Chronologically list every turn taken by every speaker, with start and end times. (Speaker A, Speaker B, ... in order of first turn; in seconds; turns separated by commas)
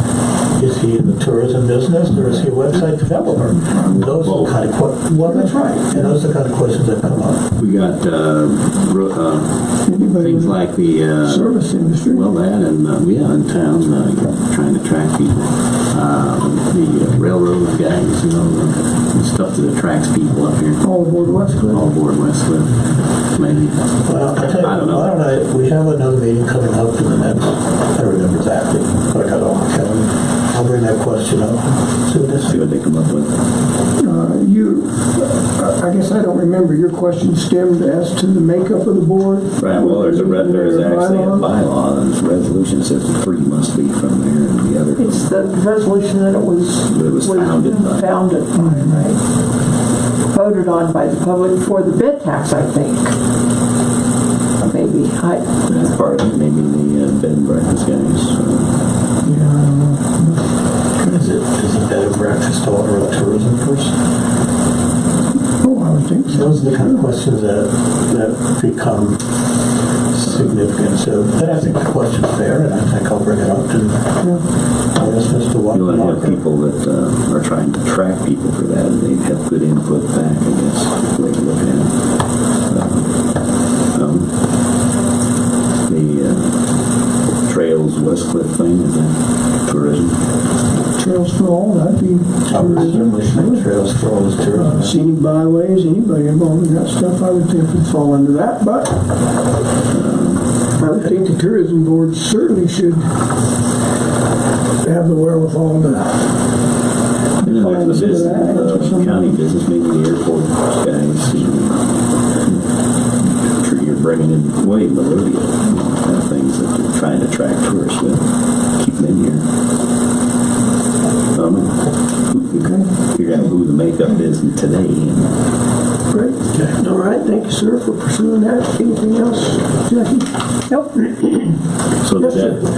Speaker A: 0.6-7.5, Speaker B: 3.7-4.1, Speaker C: 4.1-4.6, Speaker B: 5.2-6.1, Speaker C: 7.6-20.9, Speaker B: 9.9-10.6, Speaker B: 11.2-12.3, Speaker B: 20.8-21.9, Speaker C: 21.7-25.2, Speaker A: 24.1-32.6, Speaker C: 32.5-33.3, Speaker B: 34.0-41.4, Speaker C: 39.6-45.2, Speaker D: 45.0-49.2, Speaker C: 46.9-48.1, Speaker D: 50.3-53.1, Speaker D: 54.6-55.5, Speaker C: 55.7-58.8, Speaker B: 59.2-60.4, Speaker A: 61.0-63.9, Speaker B: 65.6-67.1, Speaker A: 66.3-69.2, Speaker A: 70.1-74.2, Speaker A: 74.9-76.4, Speaker C: 75.7-81.9, Speaker C: 82.7-83.2, Speaker C: 83.9-84.3, Speaker C: 85.9-86.6, Speaker C: 87.4-90.2, Speaker B: 91.0-93.6, Speaker A: 92.5-95.0, Speaker B: 94.6-99.0, Speaker C: 99.9-100.6, Speaker B: 100.8-103.1, Speaker B: 104.8-106.1, Speaker C: 107.4-112.6, Speaker B: 107.4-109.2, Speaker C: 113.2-119.4, Speaker C: 121.3-125.3, Speaker B: 122.6-122.9, Speaker B: 126.1-131.3, Speaker A: 126.5-126.8, Speaker C: 132.0-132.6, Speaker B: 132.2-132.5